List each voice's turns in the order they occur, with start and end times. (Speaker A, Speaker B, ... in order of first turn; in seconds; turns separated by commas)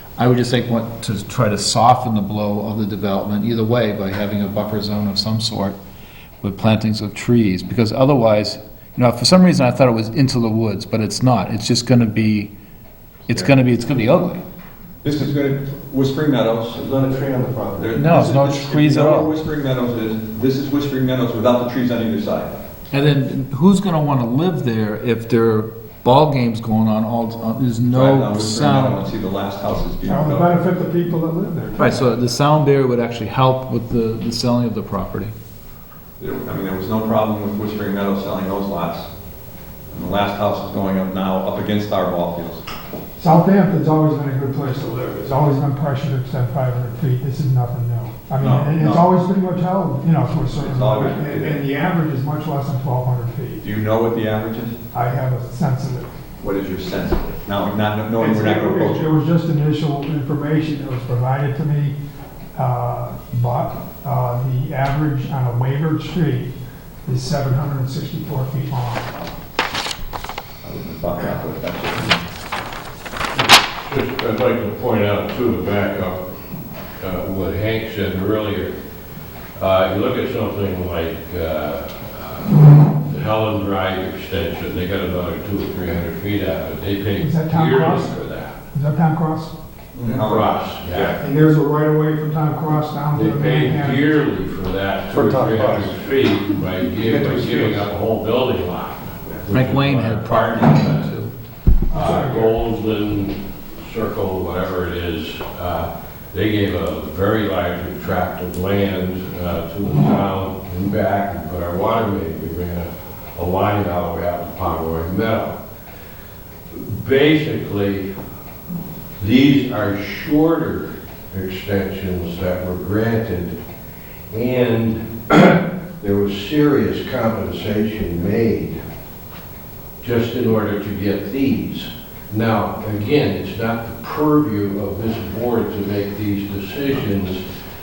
Speaker A: 0.2-5.8, Speaker A: 6.4-12.5, Speaker A: 13.3-14.4, Speaker B: 15.0-16.8, Speaker C: 16.7-17.9, Speaker B: 17.8-22.5, Speaker A: 17.9-19.3, Speaker A: 22.9-29.1, Speaker B: 27.9-30.5, Speaker D: 30.0-32.1, Speaker A: 31.8-35.3, Speaker B: 36.2-39.1, Speaker B: 39.9-42.6, Speaker D: 43.2-53.6, Speaker B: 48.4-49.1, Speaker B: 50.5-51.6, Speaker B: 53.6-54.8, Speaker D: 54.9-56.1, Speaker B: 56.4-59.1, Speaker D: 58.2-61.9, Speaker D: 62.5-66.5, Speaker D: 67.0-69.2, Speaker B: 70.6-72.2, Speaker E: 73.3-76.2, Speaker E: 77.0-78.7, Speaker E: 79.6-88.5, Speaker D: 87.2-88.2, Speaker D: 88.7-89.5, Speaker B: 89.9-91.2, Speaker E: 90.2-91.2, Speaker D: 91.0-94.0, Speaker E: 93.1-101.1, Speaker C: 95.1-95.9, Speaker C: 97.0-97.8, Speaker A: 99.5-101.3, Speaker D: 101.9-102.6, Speaker E: 101.9-115.6, Speaker E: 116.7-118.0, Speaker E: 119.2-123.6, Speaker E: 124.3-128.8, Speaker E: 130.0-137.4